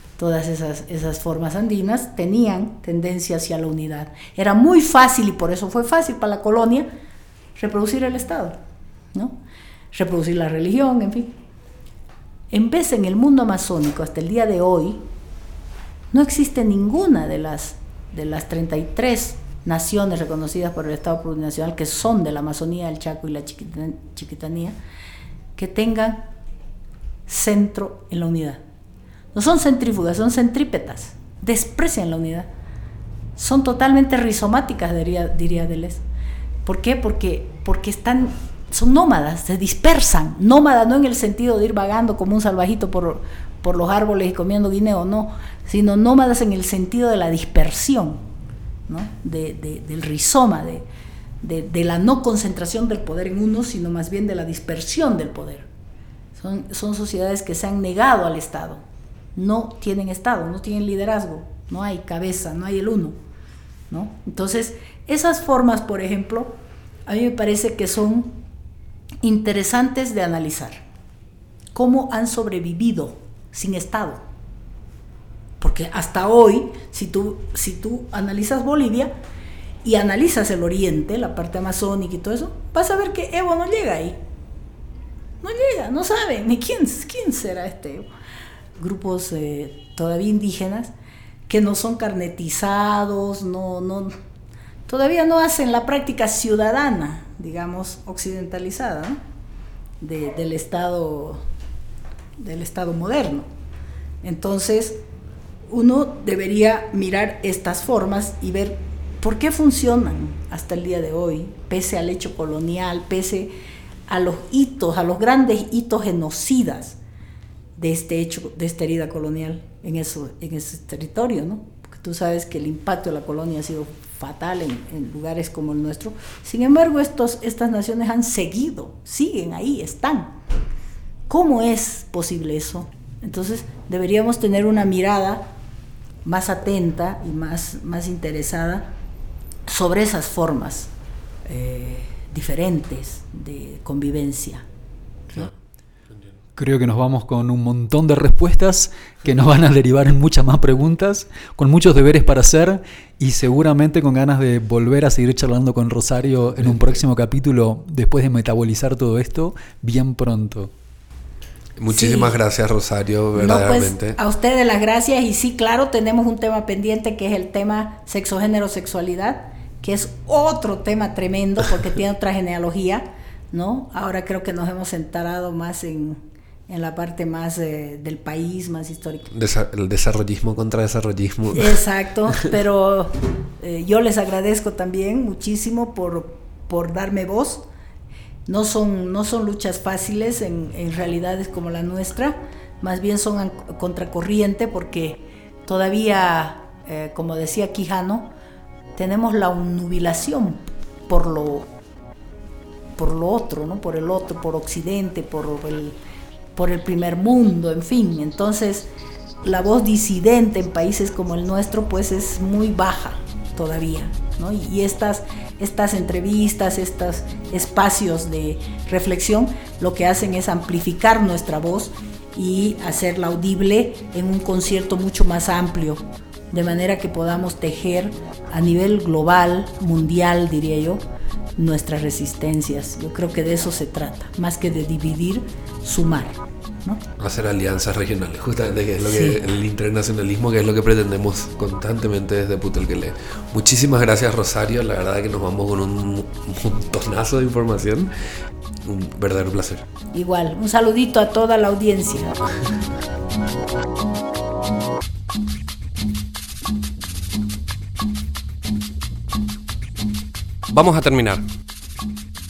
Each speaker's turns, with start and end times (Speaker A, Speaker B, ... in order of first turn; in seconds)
Speaker A: 0.2-6.9, 7.6-8.6, 9.9-11.3, 12.5-15.0, 16.1-24.8, 25.6-26.3, 27.3-28.6, 29.3-32.5, 33.4-36.0, 36.6-48.2, 48.9-50.8, 51.4-55.7, 56.4-58.8, 59.4-63.1, 63.9-68.4, 69.2-70.8, 71.7-74.2, 75.6-79.1, 79.8-84.2, 85.4-88.1, 88.8-90.9, 91.5-94.1, 94.9-99.2, 100.0-101.4, 102.4-103.5, 104.2-105.0, 105.7-113.5, 114.1-117.0, 117.8-130.3, 131.3-135.5, 136.2-138.9, 139.7-140.9, 141.5-144.6, 161.9-162.4, 163.3-179.3, 181.5-187.6, 188.5-198.3, 198.9-201.7, 203.0-206.0, 206.5-208.9, 209.4-231.0, 231.6-237.0, 239.0-239.4, 250.1-252.3
Speaker B: 146.6-160.7
Speaker C: 161.8-164.2, 179.3-181.8, 237.2-248.1, 248.8-249.8, 260.7-261.4